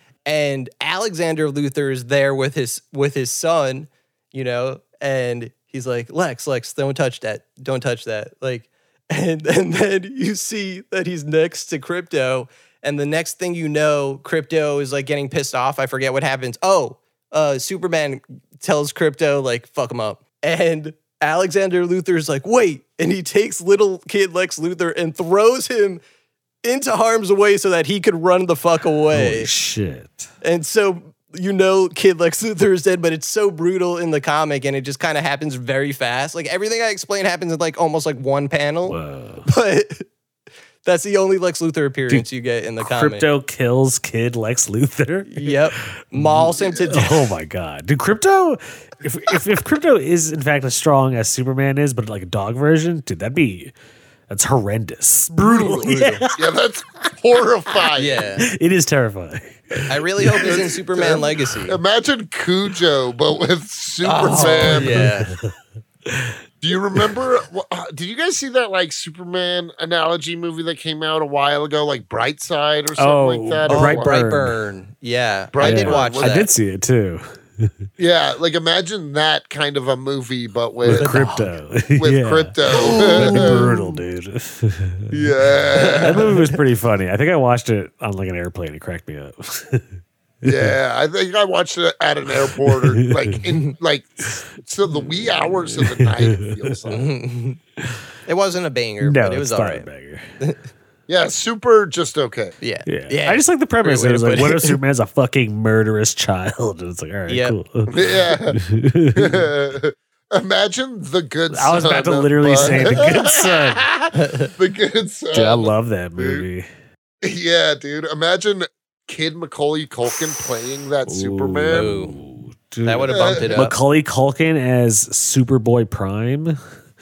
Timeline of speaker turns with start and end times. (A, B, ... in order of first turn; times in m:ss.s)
0:00.2-0:26.0 A
0:26.6-0:29.5 A
0:29.1-0:30.3 B
0:30.4-0:40.1 A
0:38.9-0:39.5 B
0:40.8-0:43.3 A
0:42.8-0:53.8 B
0:45.3-0:47.3 A
0:54.3-0:56.5 B
0:55.4-0:58.4 C
0:55.4-0:56.2 A
0:58.0-0:58.5 A
0:58.4-1:00.7 B
0:59.9-1:01.8 A
1:00.4-1:05.1 C
1:04.0-1:05.4 A
1:04.3-1:05.6 B
1:06.1-1:06.4 B
1:06.6-1:14.2 C
1:13.0-1:14.6 B
1:13.7-1:16.5 A
1:15.5-1:16.4 C
1:15.6-1:17.9 B
1:18.0-1:21.2 C
1:20.8-1:25.1 B
1:20.9-1:21.5 A
1:22.0-1:23.7 C
1:22.7-1:23.9 A
1:25.1-1:26.4 C
1:25.8-1:26.4 A
1:26.0-1:30.8 B
1:30.4-1:37.1 C
1:32.6-1:33.5 B
1:35.0-1:36.8 B
1:36.9-1:37.6 A
1:38.3-1:39.9 A
1:39.0-1:40.2 B
1:41.1-1:42.6 C
1:42.6-1:44.8 A
1:42.9-1:49.5 B
1:47.3-1:47.6 A
1:47.9-1:48.6 C
1:49.1-1:56.4 C
1:51.5-1:53.9 B
1:54.2-1:54.5 A
1:55.3-1:56.7 B
1:57.2-2:01.9 C
2:01.1-2:06.6 B
2:01.7-2:02.2 A
2:02.8-2:03.8 A
2:03.1-2:03.4 C